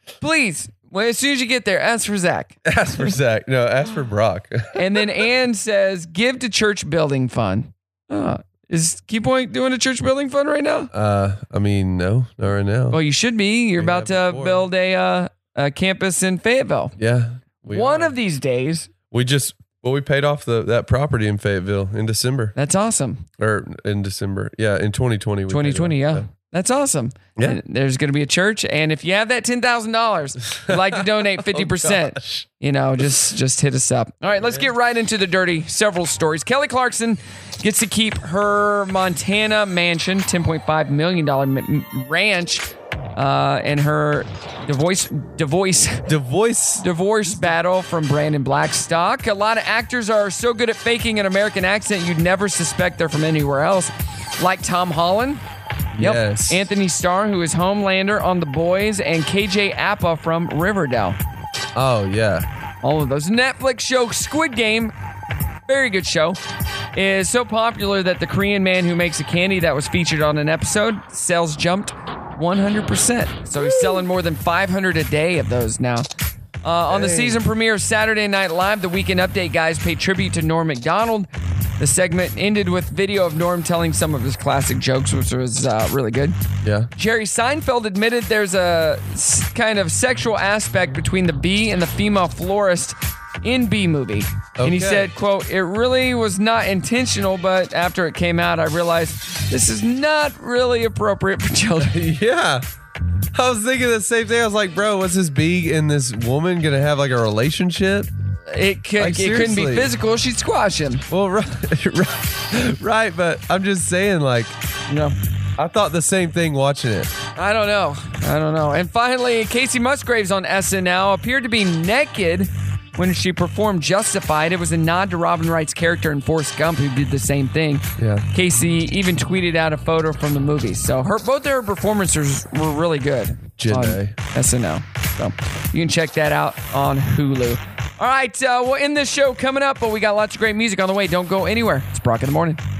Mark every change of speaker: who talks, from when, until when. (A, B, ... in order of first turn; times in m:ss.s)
0:00.2-0:03.2 A
0:02.6-0:05.3 B
0:04.8-0:10.9 A
0:10.9-0:13.0 B
0:12.9-0:17.0 A
0:13.8-0:14.7 B
0:17.0-0:18.2 B
0:17.7-0:18.9 A
0:19.1-0:22.5 B
0:22.6-0:23.3 A
0:23.4-0:26.2 B
0:25.5-0:42.6 A
0:30.5-0:32.5 B
0:34.3-0:34.7 B
0:43.2-0:46.1 A
0:46.1-0:47.5 B
0:46.8-0:55.4 A
0:56.0-0:56.7 B
0:56.0-1:01.2 A
1:01.7-1:02.5 B
1:02.8-1:04.9 A
1:05.7-1:06.4 A
1:07.0-1:16.1 A
1:16.6-1:26.4 A
1:16.9-1:17.4 B
1:26.6-1:26.9 B
1:27.0-1:42.0 A
1:34.6-1:35.1 B
1:41.8-1:42.6 B
1:43.3-1:48.1 B
1:48.5-1:51.0 A
1:49.0-1:49.9 B
1:51.1-1:54.6 B
1:54.9-1:55.2 A
1:55.6-1:57.1 B
1:57.4-2:22.6 A
2:08.0-2:08.3 B
2:13.6-2:14.2 B